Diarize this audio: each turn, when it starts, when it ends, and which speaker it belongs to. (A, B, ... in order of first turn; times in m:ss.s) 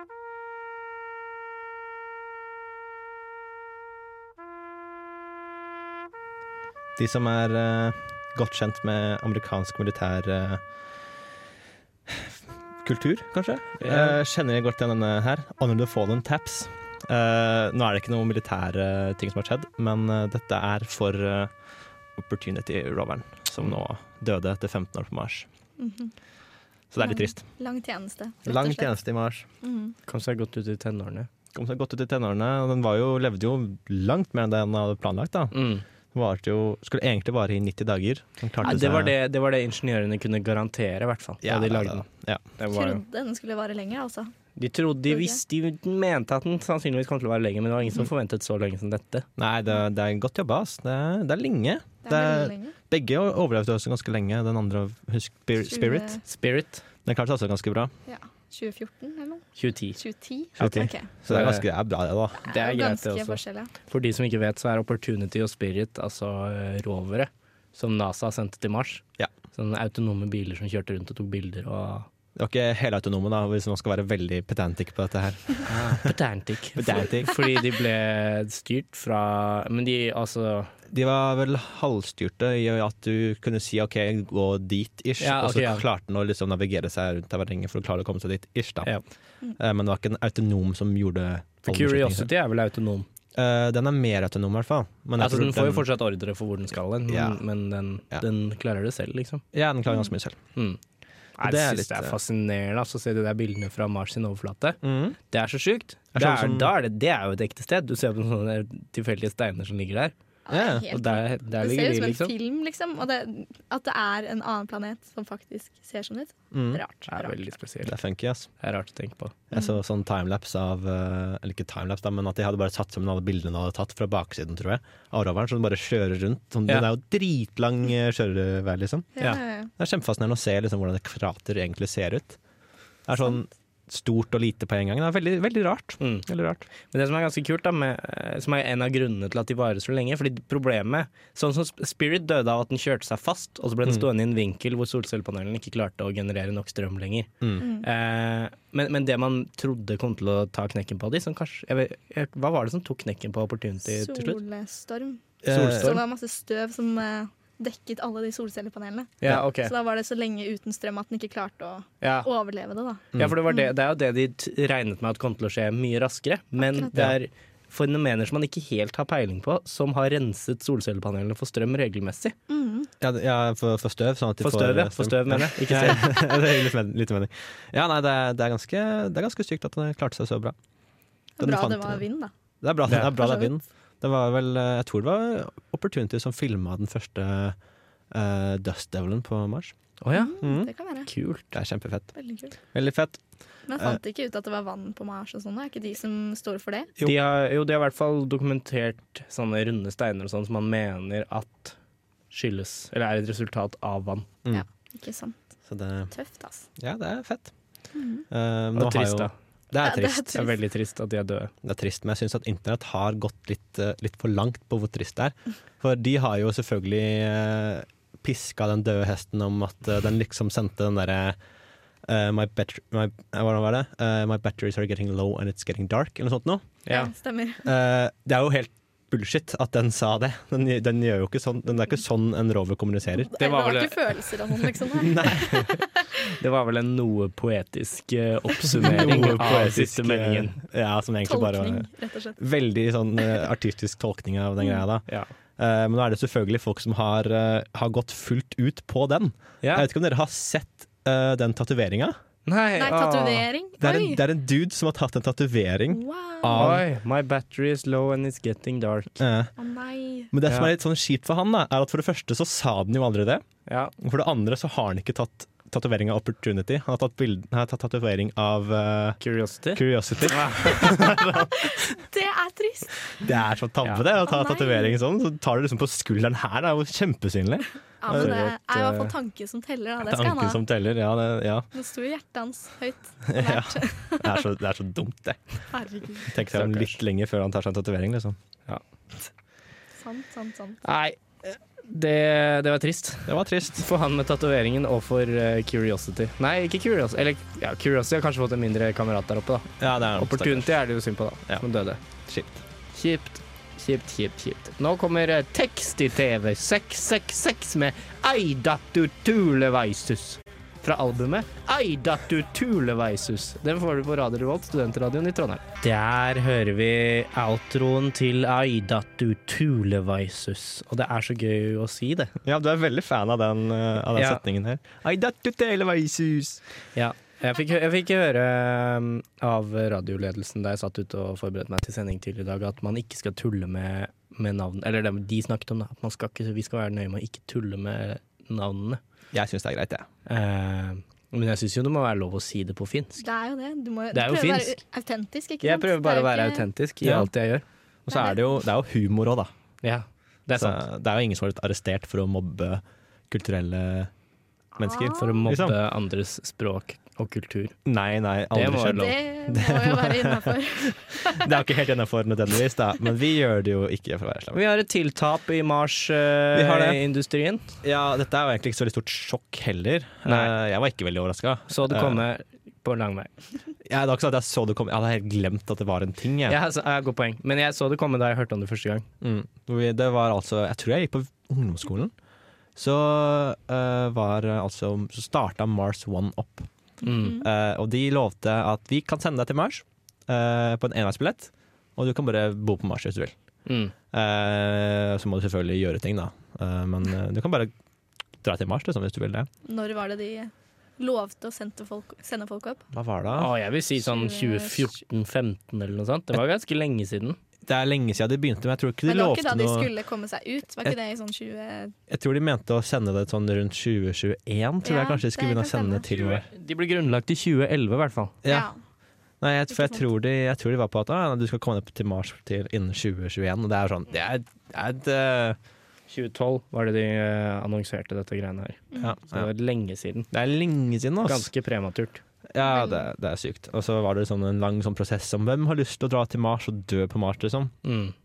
0:07.0-0:10.6 A
0:12.1-0:21.5 A
0:13.8-0:14.2 B
0:22.1-0:25.5 A
0:25.8-0:26.1 C
0:26.9-0:27.4 A
0:27.0-0:28.9 C
0:28.4-0:29.4 A
0:29.6-0:29.9 C
0:30.1-0:31.3 B
0:31.5-0:35.6 A
0:35.5-0:35.8 B
0:36.1-0:39.1 A
0:38.6-0:42.1 B
0:41.4-0:42.4 A
0:42.6-0:43.0 B
0:42.7-0:44.3 C
0:44.6-0:49.2 B
0:45.1-0:45.4 C
0:49.4-0:56.2 A
0:52.0-0:52.7 C
0:55.6-0:56.2 C
0:56.2-0:56.8 B
0:57.0-0:57.9 A
0:58.1-0:59.4 C
0:59.6-1:00.0 B
1:00.0-1:01.1 C
1:00.6-1:02.4 A
1:01.3-1:01.6 B
1:02.4-1:03.7 C
1:02.5-1:12.1 B
1:12.4-1:16.1 A
1:15.6-1:20.7 B
1:16.8-1:17.6 A
1:20.9-1:28.9 A
1:25.2-1:25.8 B
1:29.6-1:32.3 A
1:31.6-1:33.1 B
1:33.3-1:35.9 A
1:35.2-1:39.4 B
1:37.1-1:37.4 A
1:39.5-1:40.4 A
1:41.4-1:50.1 B
1:41.4-1:42.1 A
1:44.8-1:45.2 A
1:46.1-1:46.7 A
1:50.5-1:57.5 C
1:50.5-1:50.9 A
1:50.9-1:52.3 B
1:56.5-1:56.8 A
1:57.1-1:58.0 B
1:57.8-1:58.5 A
1:58.6-1:59.3 B
1:59.5-2:09.2 A
2:09.2-2:09.7 C
2:09.8-2:12.4 A
2:13.1-2:16.6 A
2:16.0-2:34.4 B
2:27.6-2:27.8 C
2:33.9-2:43.7 C
2:35.4-2:36.0 A
2:35.5-2:36.0 B
2:39.2-2:39.7 B
2:42.0-2:42.3 B
2:43.1-2:43.4 A
2:43.1-2:52.4 B
2:46.6-2:47.1 C
2:52.5-2:52.9 C
2:53.0-3:00.6 A
2:54.4-2:56.2 B
3:01.4-3:02.3 C
3:01.4-3:02.0 A
3:02.6-3:07.6 A
3:03.1-3:03.5 C
3:08.1-3:09.7 A
3:10.0-3:10.4 B
3:10.1-3:11.1 C
3:10.4-3:10.7 A
3:11.0-3:11.5 B
3:11.5-3:12.1 A
3:12.1-3:12.5 C
3:12.7-3:13.2 A
3:13.7-3:16.9 C
3:17.0-3:21.8 B
3:22.3-3:24.3 B
3:24.5-3:25.4 C
3:25.7-3:26.1 A
3:26.1-3:26.6 C
3:26.8-3:27.5 A
3:27.9-3:28.2 C
3:28.3-3:30.4 A
3:28.7-3:29.3 B
3:29.7-3:30.6 C
3:30.3-3:31.5 B
3:31.6-3:41.4 A
3:42.0-3:46.6 A
3:46.8-3:47.1 B
3:46.9-3:47.6 C
3:47.6-3:53.3 A
3:53.2-3:55.8 C
3:53.4-3:54.5 B
3:55.0-3:55.7 A
3:56.2-4:00.6 B
3:58.8-4:05.1 A
4:01.2-4:02.4 C
4:05.6-4:12.2 A
4:09.6-4:09.9 B
4:12.4-4:13.5 B
4:12.8-4:14.2 C
4:13.8-4:16.8 A
4:15.9-4:16.8 C
4:16.5-4:19.2 B
4:19.2-4:19.5 A
4:19.6-4:20.3 C
4:20.3-4:23.4 A
4:23.7-4:23.9 B
4:24.0-4:29.2 A
4:29.2-4:30.8 B
4:29.7-4:31.9 A
4:30.6-4:33.1 C
4:33.2-4:39.1 A
4:34.1-4:35.0 C
4:38.0-4:40.6 C
4:38.2-4:38.4 B
4:40.0-4:41.7 A
4:41.7-4:44.4 C
4:43.3-4:45.4 A
4:45.7-4:46.4 C
4:46.3-4:48.4 A
4:46.5-4:46.9 B
4:50.0-4:50.8 C
4:50.8-5:02.0 B
4:53.2-4:53.8 A
4:59.8-5:00.7 A
5:02.2-5:02.6 A
5:02.9-5:22.3 B
5:22.4-5:26.6 A
5:24.1-5:24.4 B
5:26.9-5:39.0 B
5:39.3-5:40.1 A
5:40.2-5:43.2 B
5:43.2-5:46.7 C
5:44.1-5:44.8 B
5:45.6-5:47.6 B
5:47.0-5:47.3 A
5:48.1-5:49.5 A
5:48.1-5:48.4 C
5:49.8-5:50.8 B
5:50.6-5:54.1 A
5:54.8-5:55.8 A
5:54.8-5:55.5 C
5:55.2-5:57.8 B
5:57.8-6:04.6 A
5:58.5-5:59.1 B
5:58.9-6:01.6 C
6:04.5-6:07.7 B
6:06.5-6:07.0 A
6:07.8-6:12.2 A
6:10.2-6:10.5 B
6:11.7-6:13.3 B
6:13.8-6:16.6 A
6:16.5-6:19.0 B
6:19.2-6:22.1 A
6:22.8-6:26.7 A
6:27.0-6:27.4 B
6:27.0-6:27.4 C
6:27.4-6:33.3 A
6:33.6-6:33.9 B
6:34.1-6:37.7 A
6:38.4-6:39.5 A
6:39.6-6:42.8 C
6:42.9-6:43.5 A
6:43.3-6:47.4 B
6:44.0-6:44.9 C
6:47.6-6:49.9 A
6:49.0-6:51.9 C
6:52.1-6:56.4 A
6:54.8-6:56.1 C
6:56.1-6:58.4 B
6:58.4-6:58.8 C
6:59.4-7:05.6 A
6:59.7-7:00.1 C
7:06.1-7:10.3 B
7:09.0-7:09.5 A
7:10.3-7:11.5 A
7:11.2-7:12.2 B
7:12.5-7:17.7 A
7:12.6-7:13.0 C
7:17.8-7:18.1 B